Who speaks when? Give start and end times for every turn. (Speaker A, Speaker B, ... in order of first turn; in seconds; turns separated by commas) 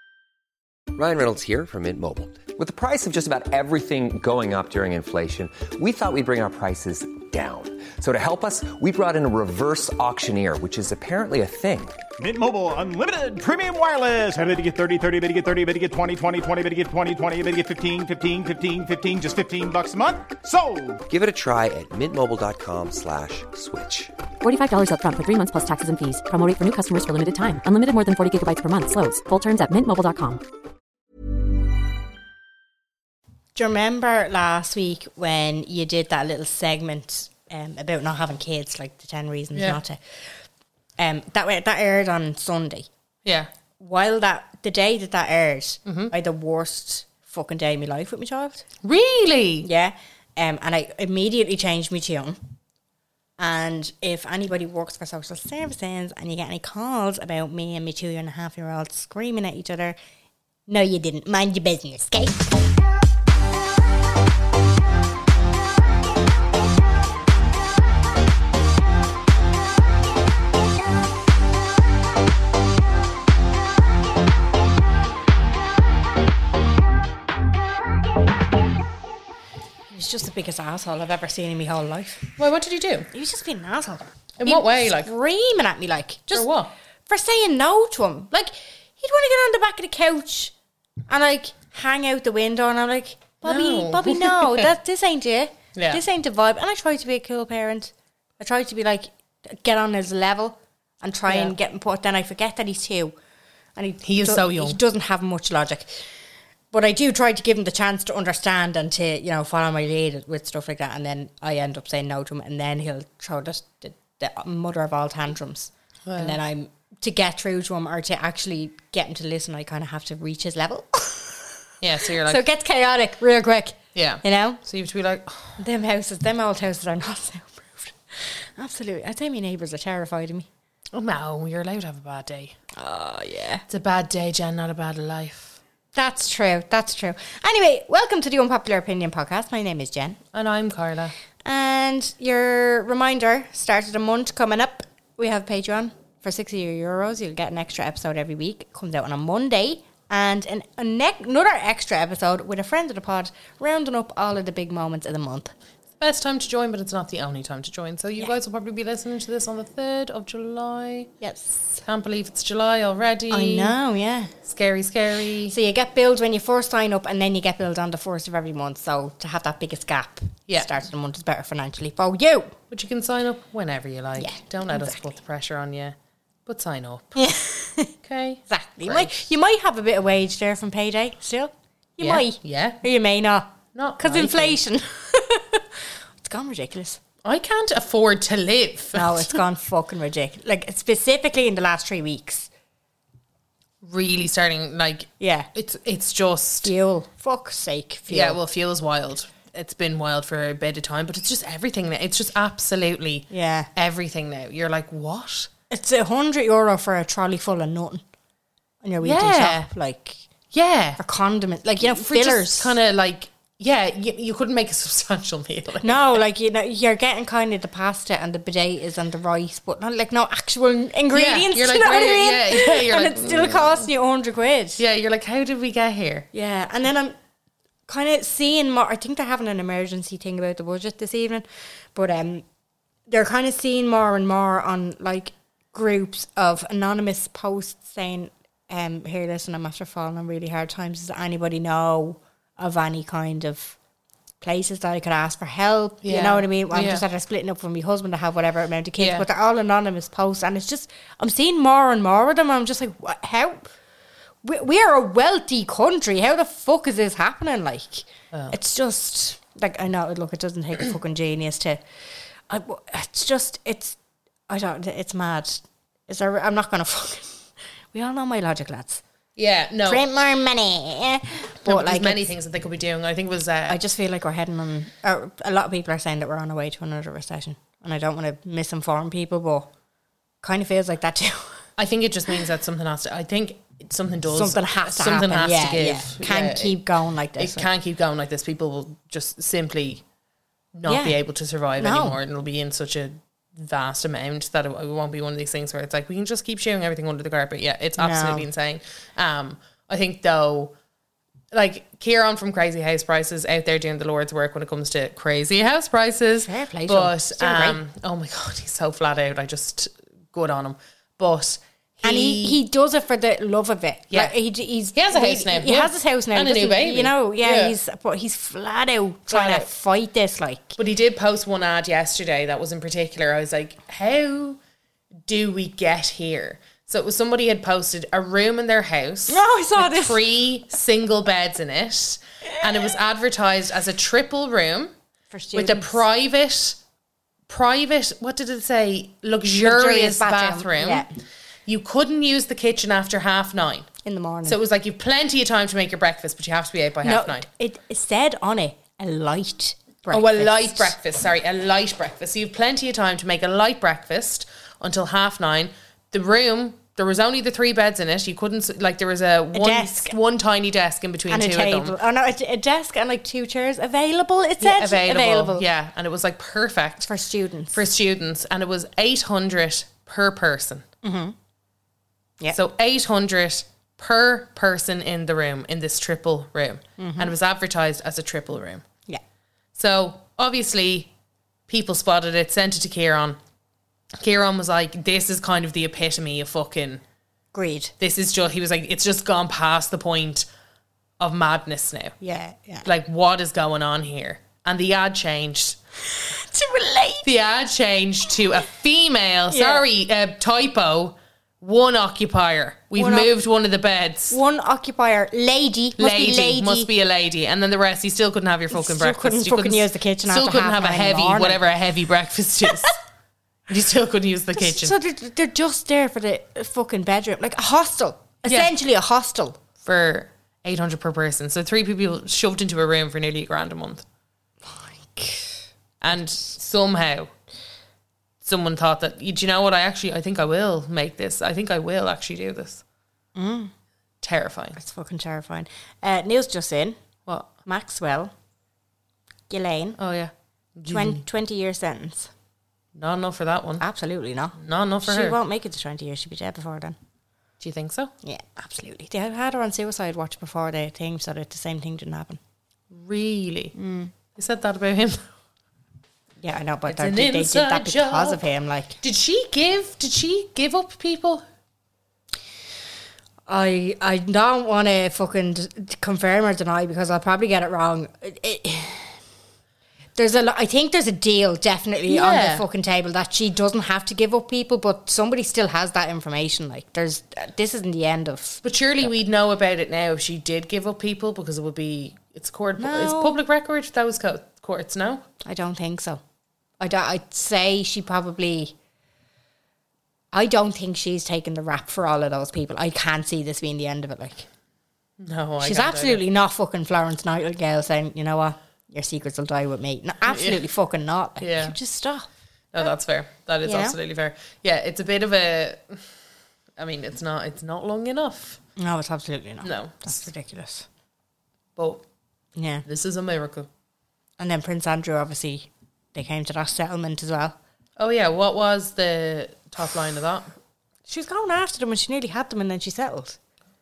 Speaker A: 0.9-12.0, Speaker B: 12.2-21.0, Speaker A: 21.1-24.1, Speaker C: 24.4-30.4, Speaker D: 33.6-40.2, Speaker E: 39.5-39.8, Speaker D: 41.0-42.9, Speaker E: 43.2-43.5, Speaker D: 43.8-48.7, Speaker E: 45.9-46.1, Speaker E: 48.8-49.7, Speaker D: 49.6-52.4, Speaker D: 53.4-60.0, Speaker D: 60.7-62.6, Speaker D: 79.9-82.3, Speaker E: 82.4-83.1, Speaker D: 83.1-86.5, Speaker E: 84.4-85.1, Speaker E: 86.3-86.7, Speaker D: 87.1-90.5, Speaker D: 91.1-103.1, Speaker E: 93.4-94.7, Speaker E: 95.8-96.0, Speaker E: 101.3-101.6, Speaker D: 103.8-106.1, Speaker E: 104.0-104.8, Speaker D: 106.7-124.6, Speaker E: 116.1-116.4, Speaker E: 121.8-122.4, Speaker E: 124.0-125.6, Speaker D: 125.6-130.5, Speaker E: 130.9-132.6, Speaker D: 132.8-133.7, Speaker E: 133.7-135.6, Speaker D: 135.9-140.2, Speaker E: 140.3-141.1, Speaker D: 141.4-155.5, Speaker E: 156.0-161.1, Speaker D: 161.2-161.8, Speaker E: 161.8-163.8, Speaker D: 163.3-164.3, Speaker E: 164.4-165.6, Speaker D: 165.5-172.6, Speaker E: 172.7-177.1, Speaker D: 174.2-175.1, Speaker D: 177.2-177.9, Speaker E: 178.0-179.3, Speaker D: 178.5-187.0, Speaker E: 182.0-182.8, Speaker E: 183.8-184.6, Speaker E: 187.2-189.4, Speaker D: 188.9-192.5, Speaker E: 193.8-196.7, Speaker D: 195.2-195.5, Speaker D: 196.6-198.4, Speaker E: 198.1-205.5, Speaker D: 203.3-203.7, Speaker D: 205.7-208.0, Speaker D: 208.8-210.2, Speaker E: 209.0-209.7, Speaker E: 210.5-211.0, Speaker D: 211.0-212.8, Speaker E: 211.8-216.2, Speaker D: 215.8-224.8, Speaker E: 221.1-223.9, Speaker E: 224.8-226.3, Speaker D: 226.3-227.2, Speaker D: 227.9-232.4, Speaker D: 233.1-243.8, Speaker D: 244.4-253.7, Speaker E: 246.0-247.0, Speaker E: 249.0-249.3, Speaker D: 254.4-261.8, Speaker D: 262.5-264.0, Speaker D: 264.5-269.0, Speaker E: 269.4-270.1, Speaker D: 269.9-272.3, Speaker E: 271.6-273.8, Speaker D: 273.7-279.7, Speaker D: 280.4-281.6, Speaker E: 281.8-290.0, Speaker D: 284.3-287.7, Speaker E: 290.7-300.7, Speaker D: 290.9-291.2, Speaker D: 291.8-292.2, Speaker D: 298.0-298.5, Speaker E: 301.5-312.6, Speaker D: 306.4-307.8, Speaker D: 312.0-320.8, Speaker E: 314.9-317.8, Speaker E: 319.3-319.7, Speaker E: 320.8-324.6, Speaker E: 325.3-334.9, Speaker D: 329.3-330.3, Speaker D: 335.3-336.0, Speaker E: 335.5-336.8, Speaker E: 337.5-341.1, Speaker D: 339.5-341.1, Speaker E: 341.7-343.9, Speaker D: 344.0-344.6, Speaker E: 344.4-347.5, Speaker D: 347.0-350.9, Speaker E: 350.1-362.0, Speaker D: 359.5-360.2, Speaker D: 361.3-365.6, Speaker E: 364.6-367.1, Speaker D: 367.1-367.8, Speaker E: 367.7-370.9, Speaker D: 371.0-371.4, Speaker E: 372.5-378.8, Speaker D: 377.0-377.3, Speaker E: 379.8-381.1, Speaker E: 381.7-383.4, Speaker E: 384.2-387.0, Speaker D: 387.5-387.9, Speaker E: 388.0-390.5, Speaker E: 391.2-392.1, Speaker D: 392.2-392.9, Speaker E: 392.9-395.8, Speaker D: 396.1-397.3, Speaker E: 397.2-404.4, Speaker D: 399.5-399.9, Speaker D: 403.0-403.3, Speaker D: 404.3-406.9, Speaker E: 406.0-412.9, Speaker D: 408.7-411.6, Speaker E: 413.7-414.9, Speaker D: 414.6-419.6, Speaker E: 418.4-418.7, Speaker E: 419.8-424.1, Speaker D: 424.6-425.6, Speaker E: 426.0-427.3, Speaker E: 428.4-432.8, Speaker D: 433.4-433.7, Speaker E: 434.2-434.8, Speaker D: 434.8-437.0, Speaker E: 437.3-437.5, Speaker D: 437.6-438.3, Speaker D: 439.5-440.0, Speaker E: 440.0-441.2, Speaker D: 440.9-442.3, Speaker E: 443.0-443.8, Speaker D: 443.8-447.0, Speaker E: 444.6-445.4, Speaker E: 447.6-448.1, Speaker D: 448.2-452.4, Speaker E: 452.9-453.8, Speaker D: 453.8-454.1, Speaker E: 454.3-455.2, Speaker D: 456.4-459.0, Speaker E: 456.9-458.4, Speaker E: 459.0-461.5, Speaker D: 463.5-469.2, Speaker D: 470.2-478.6, Speaker E: 472.1-472.7, Speaker E: 478.6-485.2, Speaker D: 482.8-483.4, Speaker D: 485.4-486.2, Speaker D: 486.8-488.8, Speaker D: 490.3-494.5, Speaker E: 495.2-496.2, Speaker D: 495.6-502.3, Speaker E: 500.3-500.6, Speaker E: 501.4-501.8, Speaker E: 502.7-506.0, Speaker D: 503.6-504.0, Speaker E: 506.8-508.6, Speaker D: 508.8-510.9, Speaker E: 509.6-510.3, Speaker E: 511.8-512.0, Speaker D: 512.6-512.9, Speaker E: 512.9-513.7, Speaker D: 514.4-517.6, Speaker E: 518.0-520.5, Speaker D: 521.1-523.4